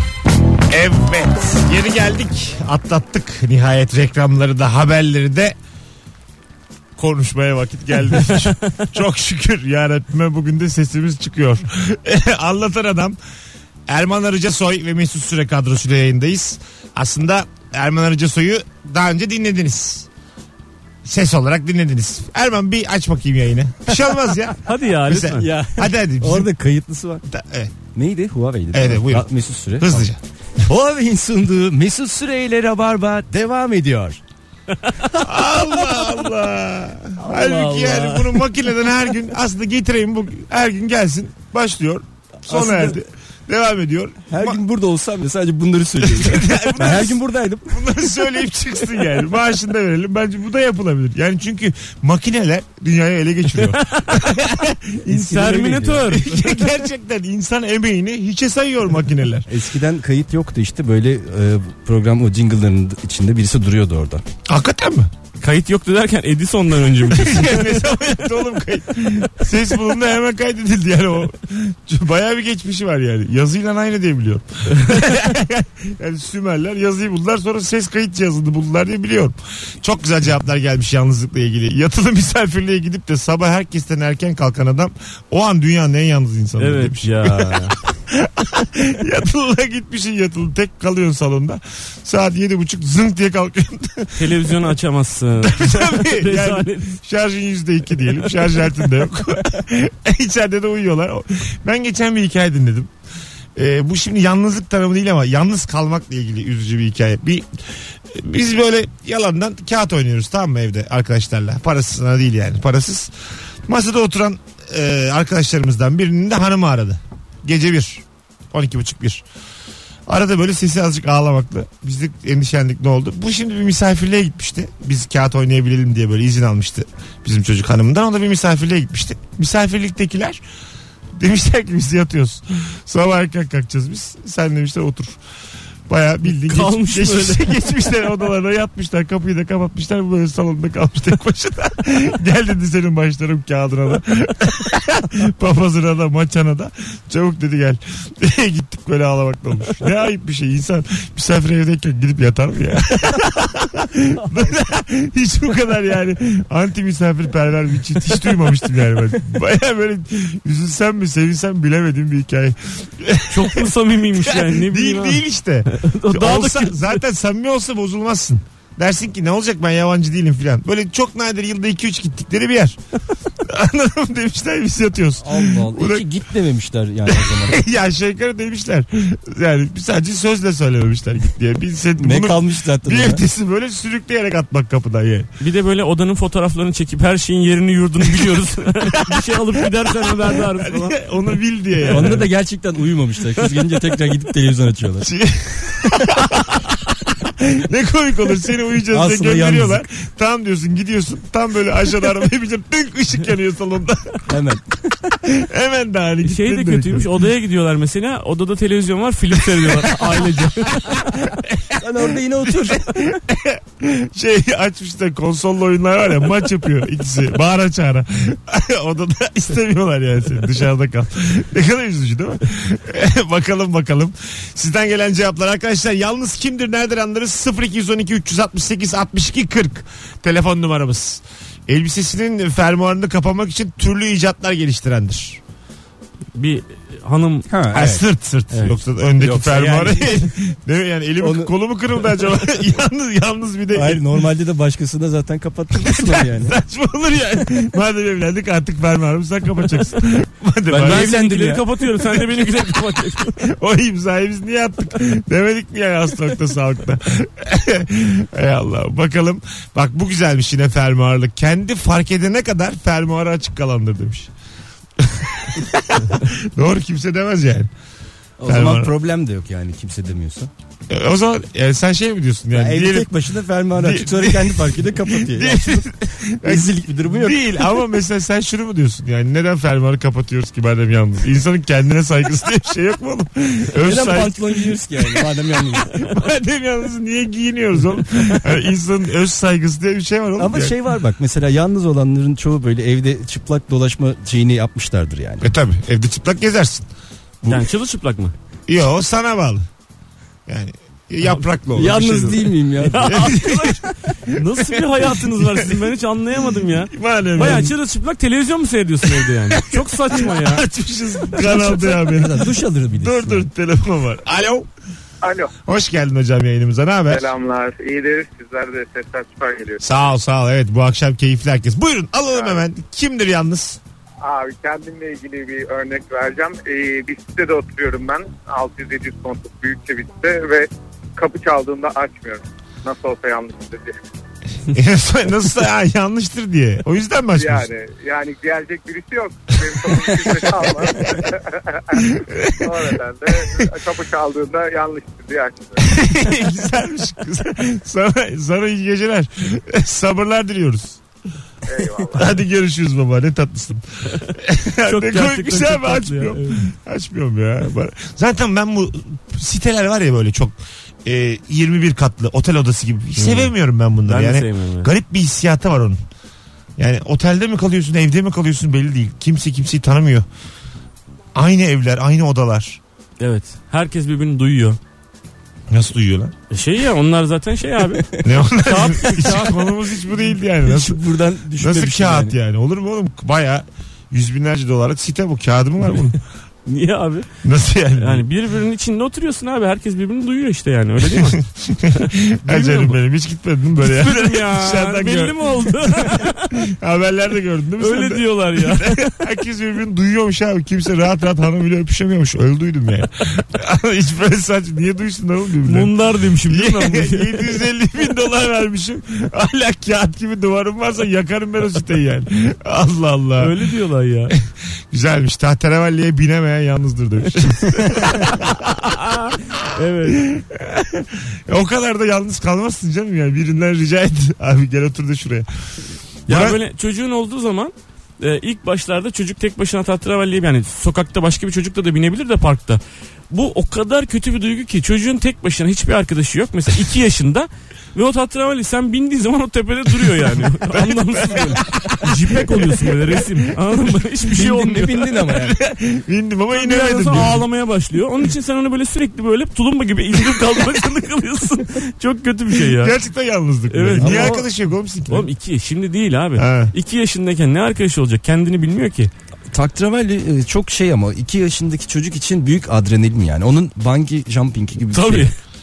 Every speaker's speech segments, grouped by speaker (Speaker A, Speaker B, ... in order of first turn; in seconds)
Speaker A: 0.7-5.5, 7.0-13.2, 13.9-20.1, 21.0-26.5, 27.3-27.7, 28.7-30.2, 35.2-44.6, 46.0-55.4, 56.0-59.5, 64.5-65.1, 67.0-94.6, 95.4-102.9, 103.5-107.4, 108.1-113.1, 113.7-119.2, 120.1-130.4, 131.2-135.2, 135.9-172.8, 173.3-176.1, 177.1-185.3, 188.9-192.3, 195.0-204.3, 205.2-207.1, 209.4-235.4, 237.7-244.2, 245.7-251.2, 252.0-264.3, 265.0-267.7, 268.5-268.9, 270.9-273.1, 273.7-290.8, 295.4-296.9, 298.7-299.6, 300.5-302.5, 303.0-305.9, 306.9-307.7, 309.0-314.7, 315.6-317.3, 319.8-323.8, 334.7-337.7, 340.0-341.1, 341.9-343.6, 345.8-351.0, 352.1-366.0, 366.8-370.2, 371.3-372.8, 375.7-376.3, 378.2-381.0, 381.6-386.2, 387.4-388.2, 391.0-405.9, 406.4-413.6, 414.9-418.9, 419.5-425.5, 426.3-426.6, 440.0-443.5, 445.2-447.4, 450.3-450.8, 452.6-455.3, 456.4-456.7
Speaker B: 24.6-25.5, 53.6-54.4, 55.1-56.7, 65.4-68.1, 86.6-87.8, 94.2-97.0, 136.4-137.6, 163.3-167.0, 185.4-191.0, 191.8-192.2, 206.2-211.2, 236.3-237.5, 238.5-238.8, 250.8-253.4, 297.4-298.3, 302.8-310.6, 354.8-356.6, 363.2-363.5, 364.1-364.9, 373.2-374.8, 376.5-379.8, 386.6-387.3, 388.0-391.4, 392.4-393.0, 393.8-396.7, 397.8-399.2, 405.6-407.6, 413.4-414.3, 417.7-420.3, 426.3-445.1, 446.5-453.0, 453.7-454.4, 455.1-459.1, 464.9-465.3
Speaker C: 25.4-27.2, 27.9-30.1, 30.6-34.2, 37.2-38.3, 42.5-43.0, 44.3-47.9, 55.0-56.1, 59.5-64.2, 175.2-177.6, 182.0-183.2, 191.9-195.1, 198.9-199.8, 204.3-204.9, 211.7-213.1, 237.5-238.0, 239.2-240.2, 241.2-241.5, 243.7-246.5, 250.7-251.6, 268.4-270.5, 272.5-277.6, 283.8-285.9, 290.4-295.5, 301.7-303.2, 311.3-313.5, 380.6-382.4, 444.3-445.6, 454.0-454.5, 459.5-465.3
Speaker D: 315.2-315.5, 317.1-319.8, 322.3-322.6, 324.2-334.0, 337.3-346.0, 351.6-352.3